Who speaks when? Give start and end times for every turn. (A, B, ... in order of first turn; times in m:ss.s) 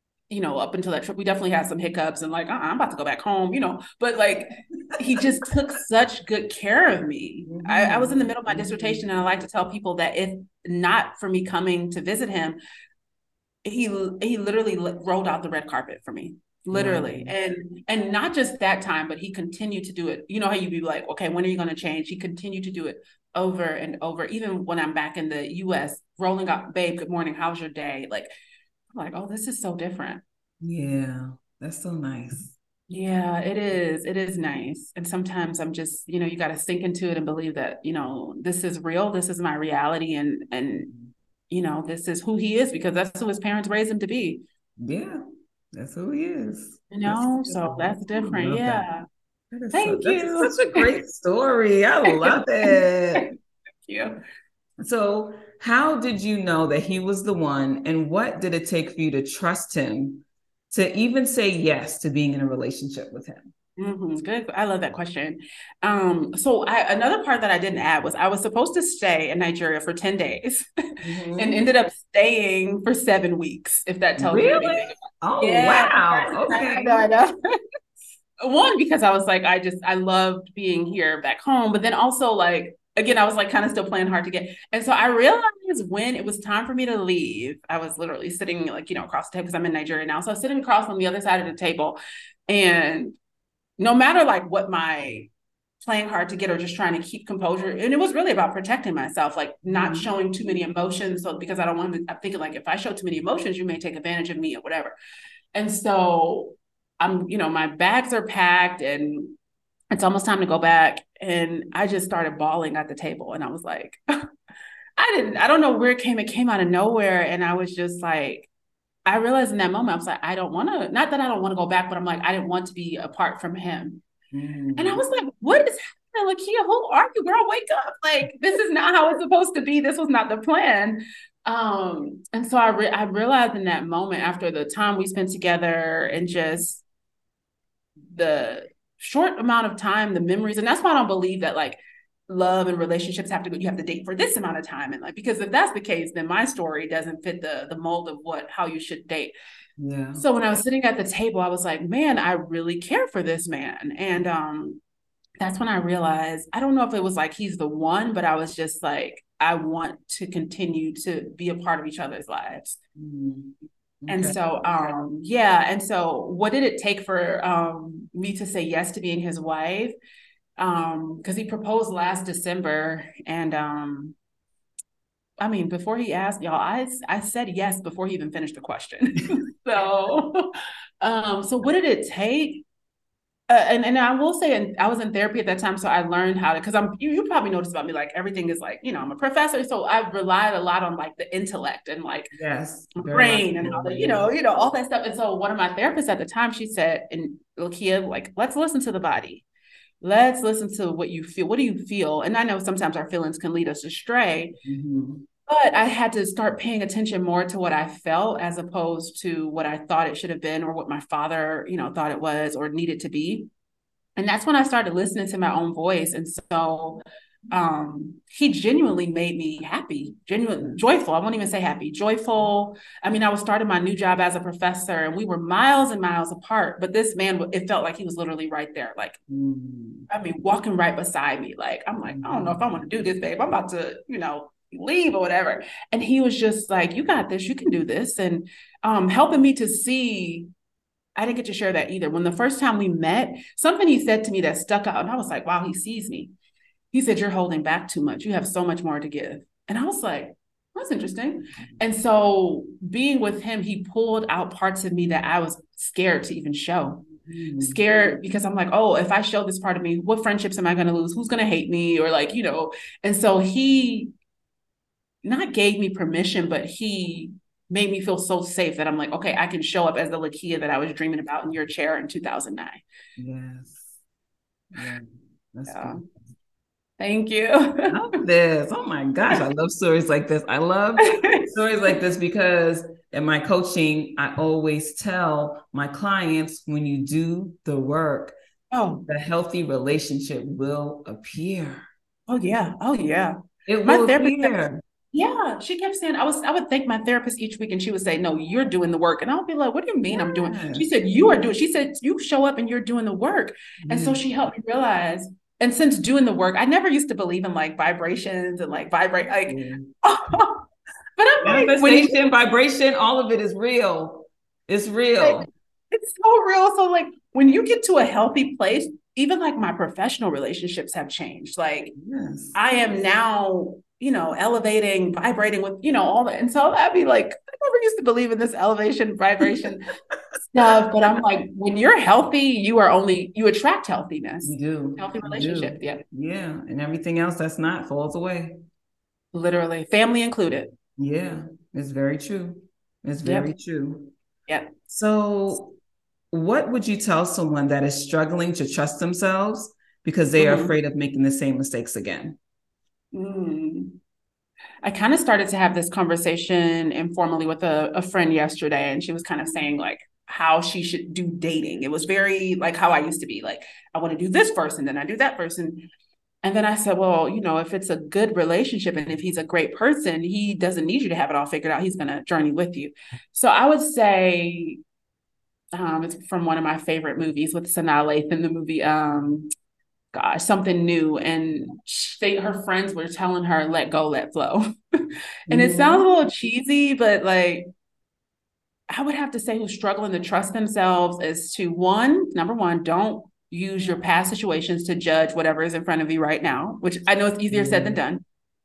0:00.3-0:12.6 A
0:04.8-0:05.4 B
0:07.4-0:09.1 B
0:13.6-0:28.3 A
0:16.7-0:17.3 B
0:28.9-0:30.2 A
0:30.6-0:32.6 B
0:32.9-0:40.9 A
0:40.7-0:41.1 B
0:41.5-0:44.4 A
0:44.8-0:45.2 B
0:45.7-0:48.9 B
0:46.9-0:49.1 A
0:49.5-0:53.3 B
0:49.7-0:50.9 A
0:53.8-0:54.2 A
0:54.8-1:03.5 B
1:03.8-1:10.7 A
1:11.0-1:11.7 B
1:11.4-1:17.3 A
1:14.2-1:17.1 B
1:18.4-1:33.2 A
1:33.8-1:35.3 A
1:35.8-1:45.0 A
1:39.7-1:40.1 B
1:45.5-1:49.4 A
1:49.9-1:54.0 A
1:55.0-1:58.5 A
1:59.1-2:04.0 A
2:04.3-2:05.0 B
2:04.8-2:16.8 A
2:18.1-2:29.3 A
2:29.8-2:30.3 B
2:30.2-2:34.8 A
2:35.4-2:42.8 A
2:43.0-2:44.4 B
2:44.1-2:50.0 A
2:50.6-2:54.2 A
2:55.4-3:00.5 A
3:01.0-3:02.7 A
3:03.5-3:12.3 A
3:12.3-3:14.3 B
3:13.0-3:19.5 A
3:20.0-3:24.6 A
3:24.6-3:25.2 B
3:25.5-3:33.5 A
3:34.2-3:49.2 A
3:49.3-3:50.1 B
3:50.1-4:00.5 A
3:52.1-3:52.6 B
4:01.2-4:06.3 A
4:06.9-4:17.0 A
4:17.0-4:17.8 B
4:17.6-4:24.1 A
4:25.2-4:32.8 A
4:33.2-4:33.9 B
4:34.7-4:36.1 B
4:35.7-4:36.0 A
4:37.0-4:37.9 A
4:37.9-4:48.4 B
4:41.2-4:41.5 A
4:48.7-4:49.0 A
4:49.1-4:51.9 B
4:52.3-4:54.6 A
4:53.7-4:54.8 B
4:55.1-5:10.6 A
5:00.1-5:00.9 B
5:03.8-5:04.2 B
5:09.5-5:09.9 B
5:11.2-5:12.1 A
5:11.4-5:15.5 B
5:15.2-5:21.9 A
5:21.9-5:22.6 B
5:22.6-5:29.9 A
5:30.5-5:36.0 A
5:34.4-5:38.6 B
5:39.3-5:40.8 A
5:41.0-5:44.1 B
5:43.2-5:43.5 A
5:44.9-5:45.8 B
5:46.3-5:52.4 B
5:50.4-5:50.7 A
5:53.1-5:54.0 A
5:54.8-6:05.9 A
6:06.4-6:14.8 A
6:15.8-6:19.5 A
6:20.1-6:24.6 A
6:25.5-6:26.0 B
6:25.5-6:27.7 A
6:28.9-6:38.2 A
6:37.5-6:38.0 B